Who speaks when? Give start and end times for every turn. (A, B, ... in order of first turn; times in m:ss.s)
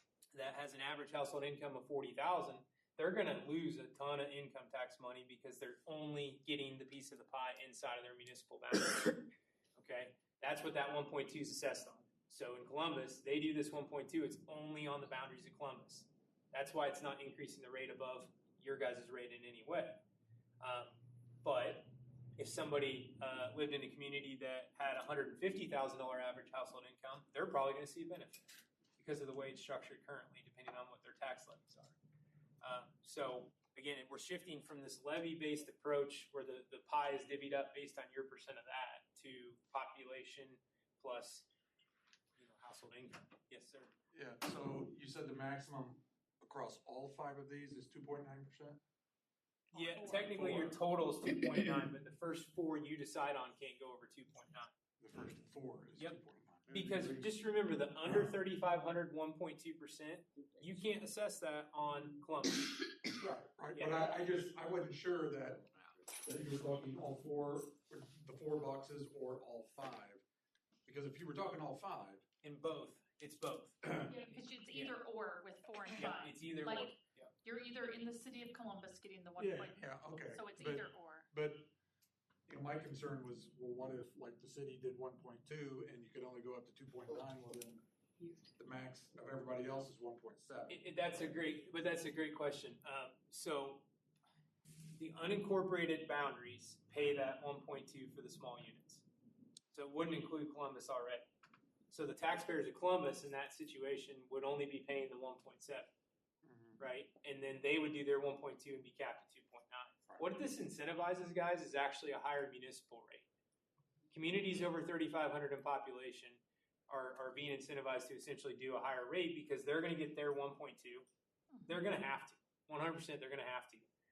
0:00.3-0:09.2 A
0:09.8-0:20.0 A
0:20.6-0:32.0 A
0:32.6-0:41.5 A
0:42.4-0:43.9 A
0:44.1-0:48.8 B
0:49.7-0:54.7 A
0:50.0-0:50.3 B
0:55.0-0:57.2 B
0:56.7-1:02.7 A
1:03.2-1:10.2 B
1:03.7-1:04.1 A
1:10.8-1:12.2 B
1:12.4-1:14.2 A
1:14.1-1:21.3 C
1:14.7-1:15.0 A
1:16.0-1:17.3 A
1:19.4-1:21.7 B
1:22.5-1:27.8 B
1:28.5-1:30.8 B
1:30.7-1:33.9 A
1:35.0-1:39.0 A
1:39.7-1:41.3 A
1:41.9-1:45.9 A
1:46.4-1:46.8 B
1:46.8-1:53.3 A
1:54.1-2:01.0 A
2:01.7-2:03.9 A